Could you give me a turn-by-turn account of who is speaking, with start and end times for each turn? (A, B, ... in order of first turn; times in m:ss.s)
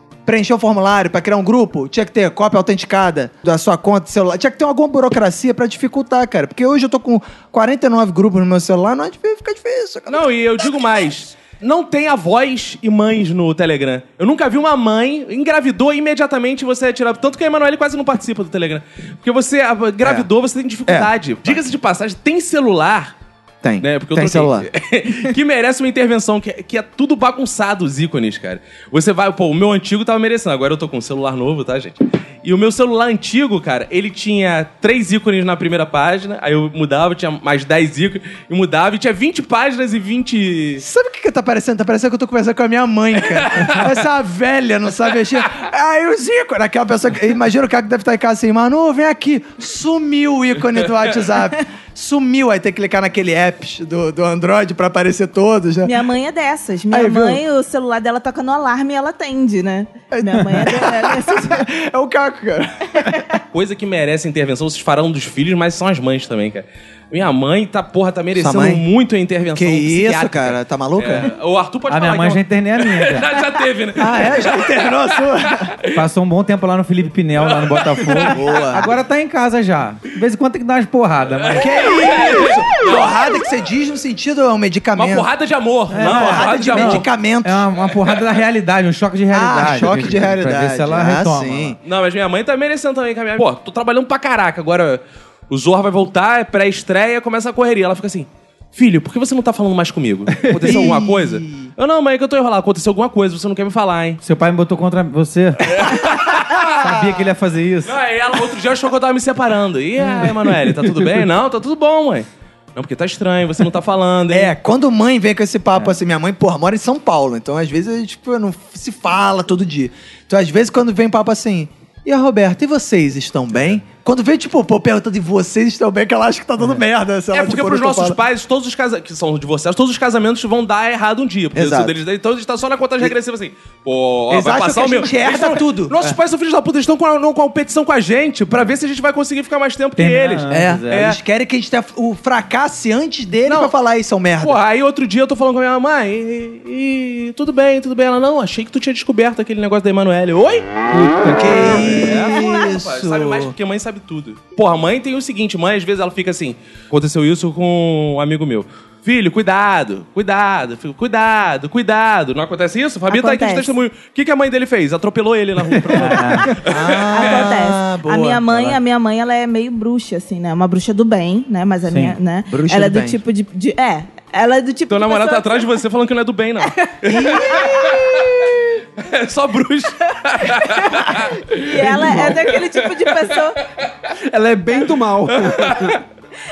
0:00.3-0:10.3 A
0:10.1-0:23.2 B
0:20.0-0:20.3 A
0:20.9-0:21.6 A
0:23.6-0:24.7 A
0:23.8-0:40.8 B
0:40.8-0:55.9 A
0:43.5-0:43.9 B
0:55.8-1:01.6 C
0:56.9-0:57.4 A
1:00.1-1:03.4 A
1:03.5-1:15.9 B
1:08.4-1:08.8 A
1:09.5-1:11.3 A
1:11.9-1:13.3 D
1:14.0-1:15.7 A
1:16.0-1:21.9 D
1:17.4-1:18.4 B
1:18.2-1:18.9 A
1:21.3-1:23.2 B
1:21.6-1:25.3 A
1:25.0-1:27.1 B
1:25.9-1:31.8 D
1:26.0-1:27.7 A
1:29.3-1:31.8 A
1:31.8-1:44.2 B
1:40.6-1:41.7 A
1:44.2-1:48.0 D
1:45.7-1:46.7 B
1:47.9-1:54.5 B
1:54.3-2:08.2 A
2:07.3-2:21.2 B
2:11.6-2:11.9 A
2:14.3-2:16.2 A
2:20.0-2:21.0 D
2:20.5-2:24.6 A
2:23.5-2:23.7 B
2:24.4-2:30.7 B
2:31.2-2:33.5 A
2:31.6-2:47.1 B
2:43.1-2:43.7 C
2:45.9-2:46.5 D
2:46.6-2:48.6 A
2:47.1-2:55.6 C
2:51.9-2:52.2 D
2:52.5-2:53.2 A
2:54.9-3:01.6 B
2:57.0-2:58.0 A
2:57.5-2:58.0 C
3:01.5-3:03.6 C
3:01.8-3:02.4 E
3:04.3-3:06.0 E
3:05.5-3:05.8 B